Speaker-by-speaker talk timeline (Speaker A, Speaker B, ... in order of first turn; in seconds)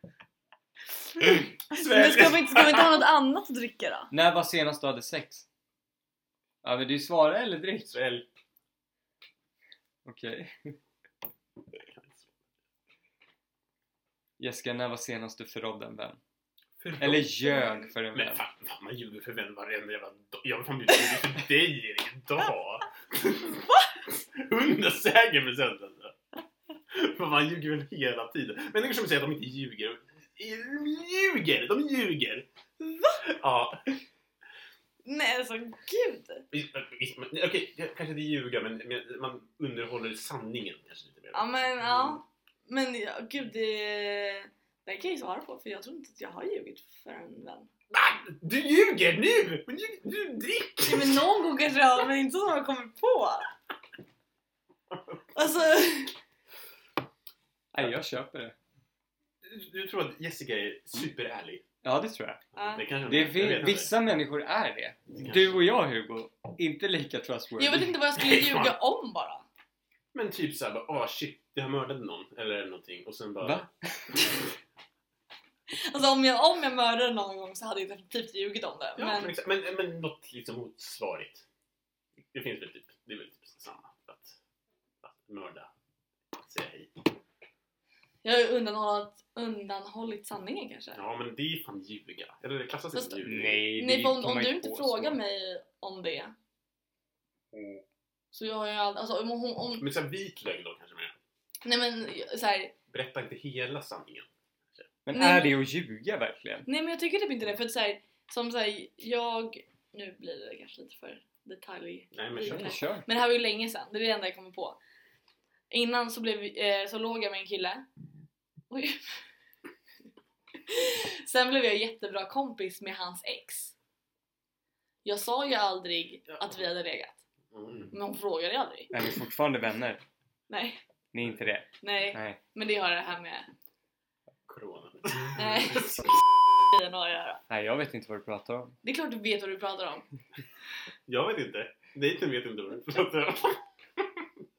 Speaker A: 1.2-4.1, 23.6-23.9, 32.8-33.2, 35.0-36.5, 41.3-47.7, 50.9-53.5, 55.4-56.2, 62.6-63.3, 67.6-69.5, 75.7-79.3, 88.2-91.0, 92.9-96.3, 98.3-99.9, 101.6-102.8, 105.2-105.5, 106.7-114.8, 115.7-117.9, 118.7-119.2, 120.7-123.7, 125.0-127.2, 127.9-128.9, 130.5-130.8, 131.8-133.5, 135.3-137.4, 138.8-140.1
Speaker B: 1.8-3.0, 7.9-8.3, 11.8-12.5, 16.8-17.4, 18.1-26.2, 26.9-32.5, 33.2-34.0, 36.5-42.2, 47.9-51.2, 54.9-55.4, 59.4-61.6, 62.5-63.9, 65.2-65.6, 68.2-68.8, 70.1-73.7, 79.0-81.5, 82.3-84.4, 85.0-85.7, 86.4-87.1, 90.9-93.7, 97.5-97.8, 99.8-101.2, 102.9-104.9, 112.1-112.8, 126.3-126.7, 127.5-127.9, 134.5-136.1, 141.1-144.3
Speaker C: 4.1-5.5, 6.6-7.9, 10.1-10.8, 14.4-16.2, 17.0-18.4, 57.7-58.6, 61.8-62.4, 63.0-67.9, 73.4-74.3, 93.2-95.2, 105.0-106.7, 112.4-113.1, 128.9-130.0, 131.1-132.4, 137.5-138.8